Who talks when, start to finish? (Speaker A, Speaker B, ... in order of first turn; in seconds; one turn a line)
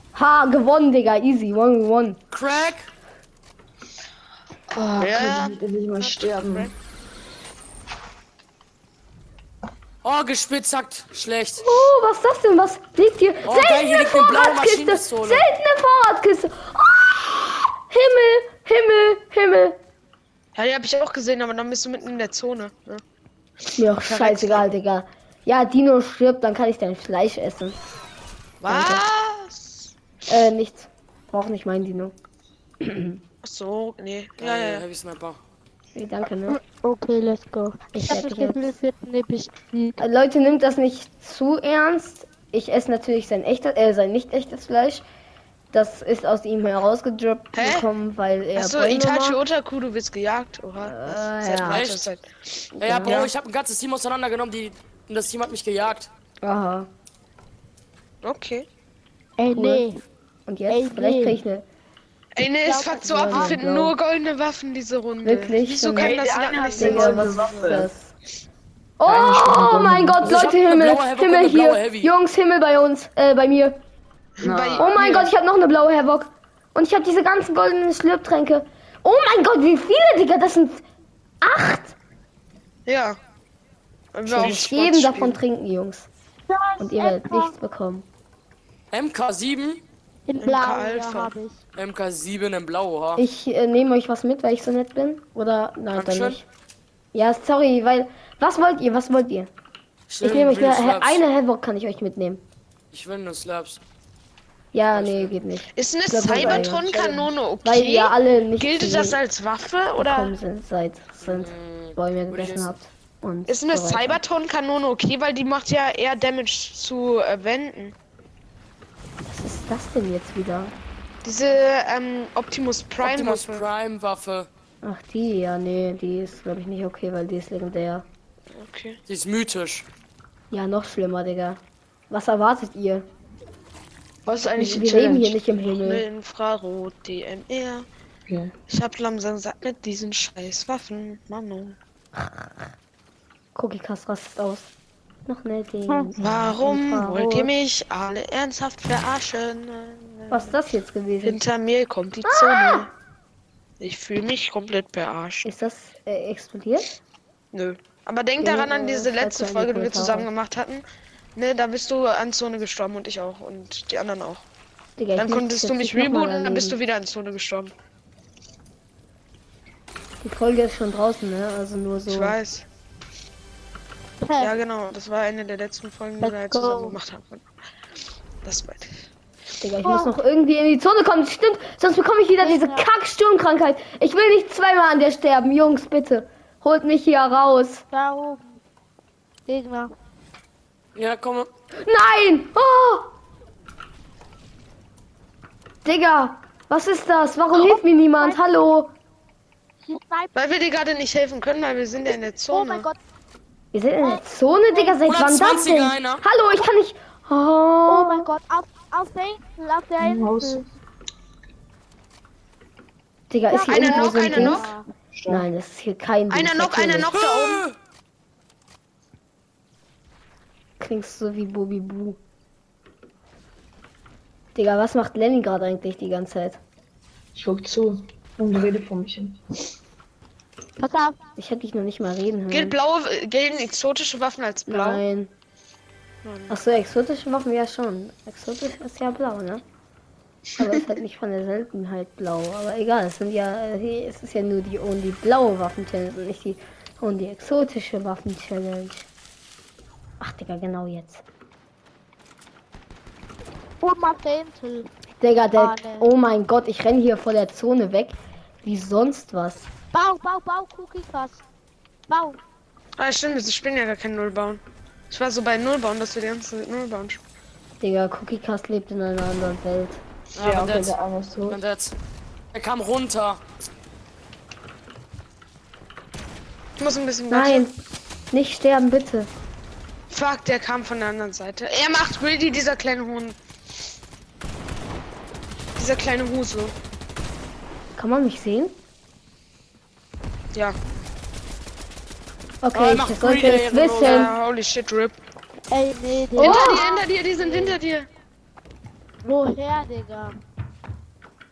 Speaker A: 0.1-2.2
Speaker B: 2.3-2.9
Speaker C: 4.7-6.7
Speaker D: 5.0-6.7
Speaker B: 10.0-11.6
Speaker A: 11.6-19.8
Speaker B: 13.4-15.4
Speaker D: 20.5-23.0
Speaker A: 23.8-27.8
Speaker D: 24.0-24.7
Speaker B: 28.6-28.9
Speaker D: 28.6-29.9
Speaker A: 28.7-29.0
Speaker A: 30.3-32.1
Speaker A: 32.8-33.2
Speaker D: 33.4-34.8
Speaker B: 34.4-35.4
Speaker A: 35.9-36.6
Speaker E: 36.5-40.0
Speaker A: 37.9-38.7
Speaker A: 40.0-45.0
Speaker A: 45.7-49.4
Speaker D: 47.5-47.9
Speaker D: 48.5-53.3
Speaker A: 50.8-51.9
Speaker B: 51.7-52.1
Speaker A: 52.8-53.2
Speaker B: 52.8-56.1
Speaker A: 56.4-56.9
Speaker D: 58.2-58.6
Speaker E: 59.4-60.0
Speaker A: 59.5-59.8
Speaker A: 60.5-61.6
Speaker E: 60.7-61.4
Speaker D: 62.3-67.6
Speaker E: 62.6-63.6
Speaker A: 63.0-63.9
Speaker A: 65.2-66.2
Speaker C: 66.0-67.9
Speaker A: 66.7-68.1
Speaker A: 69.0-73.8
Speaker C: 69.0-70.3
Speaker B: 70.2-72.1
Speaker D: 74.4-75.3
Speaker C: 74.4-74.9
Speaker A: 74.7-80.8
Speaker A: 81.4-81.9
Speaker D: 82.8-83.2
Speaker D: 84.1-85.4
Speaker A: 84.2-86.1
Speaker E: 86.5-87.5
Speaker A: 86.8-88.0
Speaker B: 88.9-89.8
Speaker E: 90.2-91.6
Speaker D: 90.4-91.3
Speaker B: 91.8-93.2
Speaker A: 93.2-96.4
Speaker B: 95.9-96.4
Speaker A: 97.1-99.5
Speaker B: 100.1-101.2
Speaker A: 100.2-102.4
Speaker B: 102.9-103.8
Speaker A: 104.7-106.9
Speaker B: 104.9-105.3
Speaker D: 105.7-110.3
Speaker C: 106.3-107.3
Speaker A: 107.6-109.2
Speaker A: 110.0-114.2
Speaker B: 111.2-112.7
Speaker D: 113.5-117.9
Speaker A: 119.2-120.7
Speaker D: 121.2-123.6
Speaker B: 123.0-124.5
Speaker A: 124.8-128.1
Speaker D: 128.5-129.0
Speaker B: 129.1-129.8
Speaker A: 130.5-133.1
Speaker C: 134.2-135.4
Speaker A: 134.6-136.0
Speaker D: 135.7-137.8
Speaker C: 138.3-138.5
Speaker D: 138.7-141.8
Speaker A: 142.2-142.5
Speaker A: 143.5-144.7
Speaker A: 145.3-147.5
Speaker D: 146.2-150.6
Speaker A: 150.3-151.4
Speaker D: 151.2-152.9
Speaker A: 152.2-152.8
Speaker D: 153.8-155.5
Speaker A: 155.4-157.0
Speaker D: 157.5-160.8
Speaker A: 158.4-160.3
Speaker D: 161.3-164.4
Speaker A: 165.0-166.8
Speaker D: 165.1-167.7
Speaker A: 170.2-172.3
Speaker D: 172.1-172.7
Speaker E: 174.2-174.5
Speaker D: 174.4-177.4
Speaker E: 176.2-177.0
Speaker D: 178.4-179.1
Speaker A: 179.6-187.8
Speaker E: 179.8-180.1
Speaker E: 182.4-182.9
Speaker E: 187.9-188.6
Speaker E: 189.4-189.9
Speaker B: 190.9-191.5
Speaker A: 191.8-193.1
Speaker A: 195.8-198.9
Speaker E: 197.5-198.4
Speaker E: 199.9-200.3
Speaker D: 200.3-202.9
Speaker E: 202.5-203.0
Speaker A: 203.7-208.2
Speaker E: 204.7-205.0
Speaker B: 205.0-206.2
Speaker E: 207.9-210.7
Speaker C: 210.0-210.7
Speaker A: 213.3-214.7
Speaker E: 213.5-214.8
Speaker D: 213.6-214.7
Speaker C: 215.2-215.4
Speaker A: 215.3-217.1
Speaker D: 216.3-217.6
Speaker B: 217.1-217.7
Speaker A: 220.8-222.2
Speaker A: 224.5-226.6
Speaker C: 227.3-229.4
Speaker E: 230.8-231.2
Speaker A: 231.4-232.7
Speaker D: 232.5-235.0
Speaker A: 234.7-235.3
Speaker D: 236.2-236.6
Speaker A: 236.5-239.6
Speaker A: 240.6-249.1
Speaker A: 250.2-251.2
Speaker E: 253.8-254.9
Speaker A: 255.2-259.7
Speaker E: 255.5-256.1
Speaker E: 259.9-261.4
Speaker E: 262.1-262.4
Speaker D: 263.0-267.2
Speaker A: 267.8-270.0
Speaker B: 270.4-271.9
Speaker C: 270.4-271.6
Speaker B: 272.5-273.4
Speaker D: 276.8-277.6
Speaker A: 277.3-277.7
Speaker A: 278.3-279.3
Speaker D: 280.1-283.4
Speaker D: 285.8-286.7
Speaker A: 287.9-288.7
Speaker A: 292.6-294.3
Speaker B: 292.7-294.3
Speaker D: 294.0-295.2
Speaker E: 295.7-297.8
Speaker A: 296.4-296.8
Speaker D: 296.4-298.1
Speaker E: 299.2-300.4